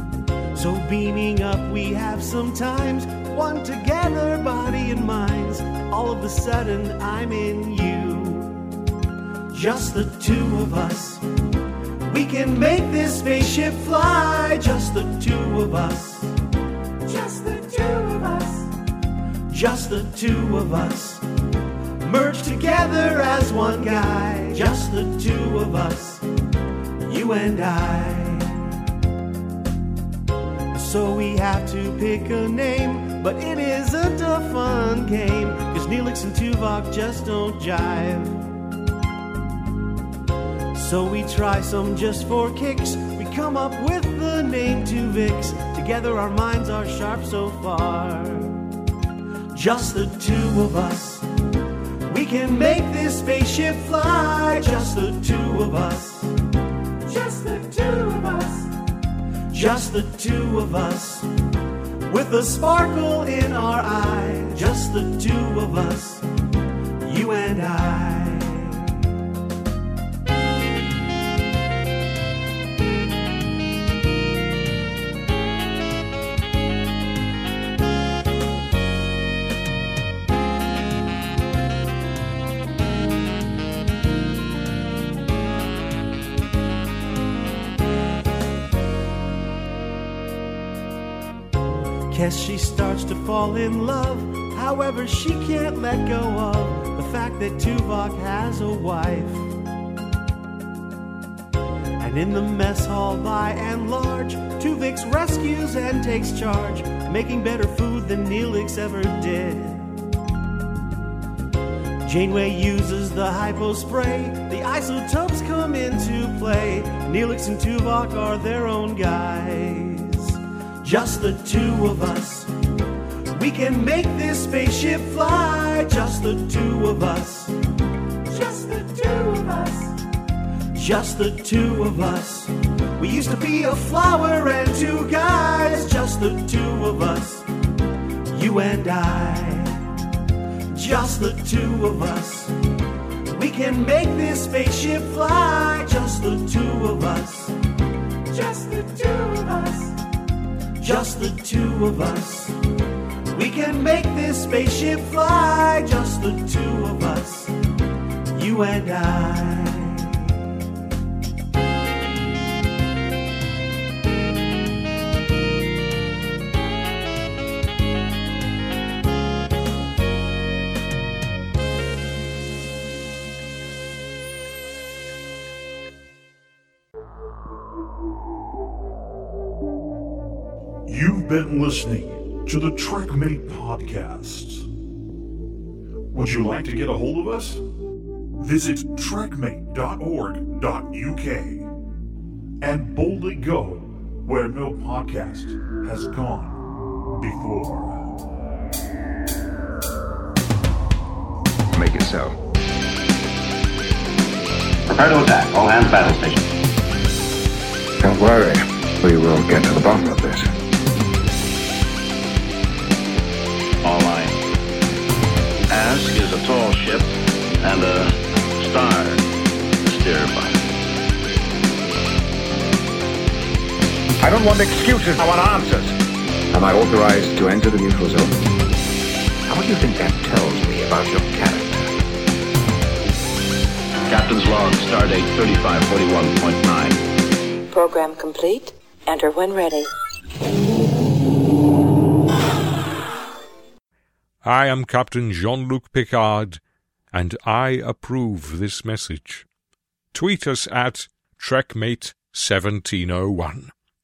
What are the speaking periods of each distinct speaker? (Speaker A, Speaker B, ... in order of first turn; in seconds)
Speaker A: 0.5-8.7, 9.5-11.2, 12.1-16.3, 17.1-18.7, 19.5-21.2, 22.0-26.2, 27.1-28.7, 30.7-38.5, 40.7-48.6, 49.5-51.3, 52.1-56.3, 57.0-58.7, 59.5-61.3, 62.1-66.2, 67.0-68.9, 92.1-99.5, 102.0-110.0, 112.0-122.5, 123.3-127.5, 128.3-129.9, 130.7-137.5, 138.3-139.8, 140.7-142.5, 143.3-147.6, 148.3-149.9, 150.8-152.6, 153.3-157.5, 158.3-160.4
Speaker B: 180.9-184.7, 186.1-187.6, 188.4-191.7, 192.6-198.1
Speaker C: 201.7-202.4, 208.0-210.5, 224.2-225.9, 226.5-228.4, 229.4-231.9
Speaker D: 204.9-206.4, 213.8-214.3, 215.7-219.2, 219.9-220.7, 234.1-237.0
Speaker E: 237.7-239.9
Speaker F: 244.4-249.5, 250.1-253.7